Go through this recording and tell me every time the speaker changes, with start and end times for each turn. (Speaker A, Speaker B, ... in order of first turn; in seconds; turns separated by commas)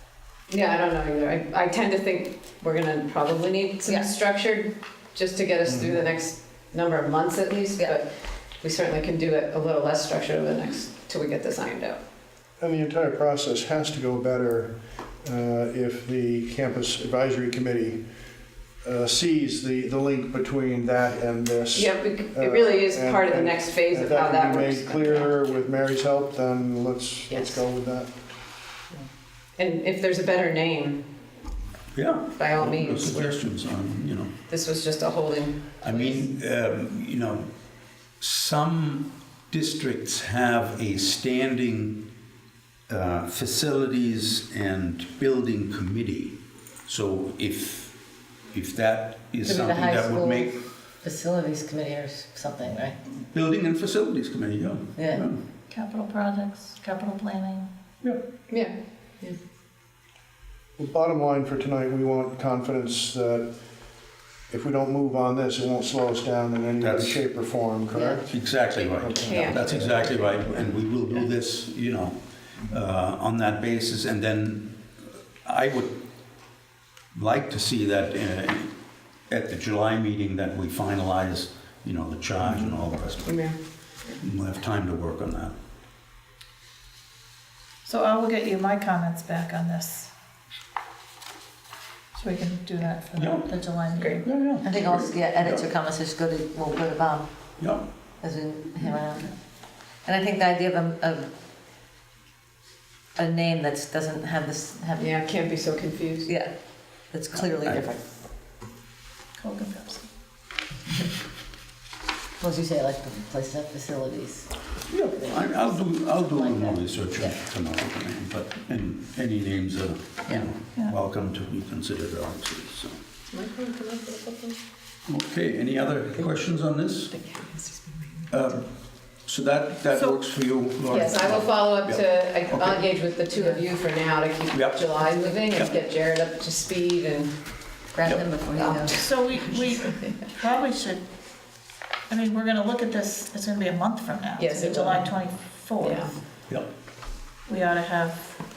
Speaker A: 0.5-12.0, Speaker B: 3.9-4.1, Speaker C: 5.7-6.0, Speaker C: 12.6-18.0, Speaker C: 18.8-28.1, Speaker A: 21.7-25.3, Speaker A: 27.3-27.6, Speaker A: 29.6-31.1, Speaker D: 31.9-34.4, Speaker A: 32.3-33.5, Speaker A: 34.5-36.3, Speaker D: 35.8-37.5, Speaker D: 38.2-42.1, Speaker D: 42.9-48.0, Speaker D: 48.5-50.6, Speaker B: 49.4-53.0, Speaker D: 53.1-55.4, Speaker B: 55.0-55.2, Speaker E: 55.7-57.7, Speaker A: 58.5-59.4, Speaker C: 60.8-63.5, Speaker C: 64.5-70.9, Speaker D: 66.8-67.2, Speaker A: 67.9-68.2, Speaker D: 68.3-74.9, Speaker A: 68.8-70.5, Speaker D: 75.4-76.0, Speaker D: 77.1-78.8, Speaker D: 79.3-83.5, Speaker A: 83.2-84.1, Speaker D: 84.2-85.5, Speaker E: 87.8-90.1, Speaker E: 92.1-94.3, Speaker D: 93.2-93.7, Speaker A: 94.0-94.2, Speaker D: 94.2-95.7, Speaker B: 94.6-97.6, Speaker D: 97.6-97.9, Speaker B: 98.2-101.3, Speaker B: 103.2-105.1, Speaker A: 105.0-106.3, Speaker B: 106.2-108.0, Speaker D: 107.4-107.9, Speaker E: 109.4-110.1, Speaker B: 112.4-114.6, Speaker D: 114.9-123.0, Speaker B: 115.2-115.5, Speaker E: 116.1-116.8, Speaker A: 123.3-124.6, Speaker D: 125.1-127.1, Speaker A: 127.1-128.4, Speaker D: 128.3-132.9, Speaker E: 129.9-130.2, Speaker A: 130.9-137.4, Speaker B: 133.3-133.6, Speaker D: 134.5-135.0, Speaker B: 135.1-135.4, Speaker B: 137.9-139.0, Speaker D: 138.1-138.3, Speaker A: 138.6-140.3, Speaker E: 138.9-141.1, Speaker E: 142.1-146.2, Speaker A: 144.4-145.1, Speaker A: 145.8-146.1, Speaker E: 147.5-148.4